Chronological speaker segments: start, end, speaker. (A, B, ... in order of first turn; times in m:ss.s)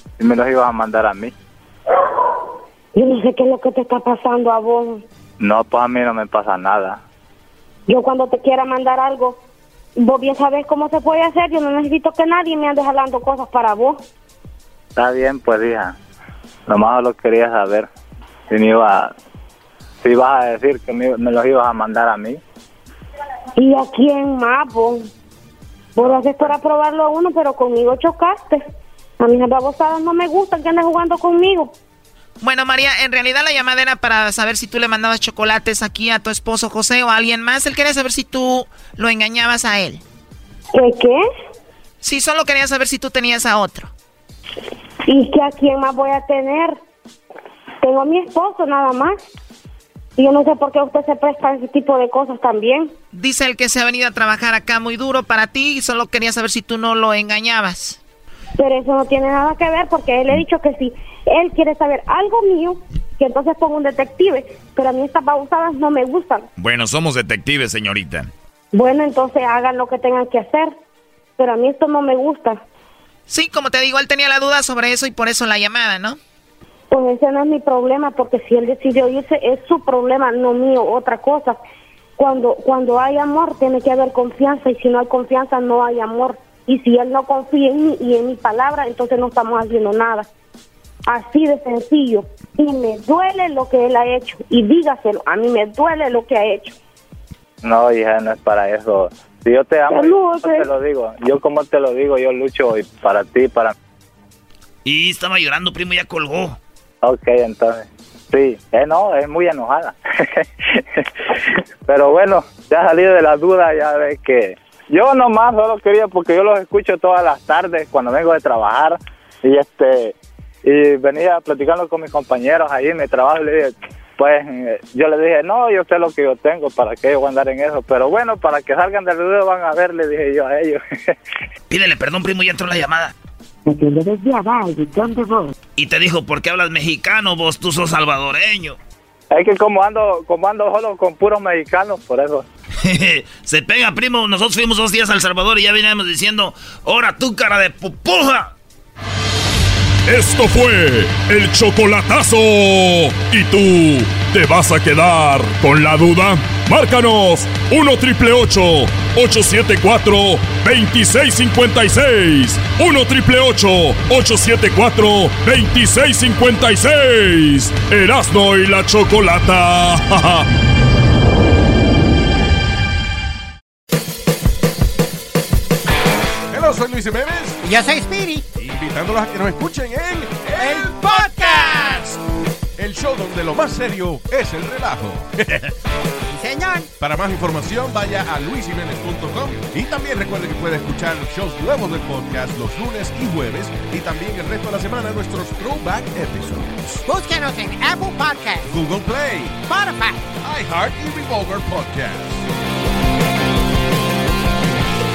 0:00.2-0:01.3 A
0:03.0-0:05.0 B
0:05.4-0:07.0 A
0:07.9-0:09.4 B
0:10.0-0:14.0 B
0:15.0-0:16.0 A
0:16.7-0:17.9 A
0:18.5-0:19.1 A
0:20.0-0:22.4 A
0:23.6-0:25.1 B
0:26.0-0:28.6 B
0:26.0-0:26.5 A
0:29.2-0:31.7 B
0:32.4-0:40.0 C
0:40.7-0:41.2 B
0:42.0-0:43.9 C
0:45.1-0:46.8 B
0:47.8-0:49.2 B
0:50.2-0:52.9 B
0:53.1-0:58.0 C
0:58.6-1:06.5 B
1:06.6-1:08.3 D
1:08.7-1:10.7 B
1:11.4-1:12.6 B
1:13.3-1:16.2 C
1:16.9-1:21.6 B
1:22.2-1:30.3 B
1:31.1-1:36.8 B
1:37.6-1:43.8 A
1:39.9-1:40.7 B
1:44.8-1:46.6 D
1:47.0-2:11.1 A
2:11.7-2:13.1 D
2:13.8-2:15.5 E
2:15.8-2:18.8 D
2:19.3-2:22.5 A
2:22.8-2:28.5 D
2:30.1-2:50.5 F
2:56.5-2:57.7 G
2:57.6-2:58.4 E
2:58.6-3:02.0 G
3:00.6-3:02.1 E
3:02.8-3:05.7 G
3:06.3-3:06.9 E
3:07.0-3:17.1 G
3:17.1-3:18.7 E
3:18.6-3:19.6 G
3:19.7-3:20.2 E
3:20.4-3:22.4 G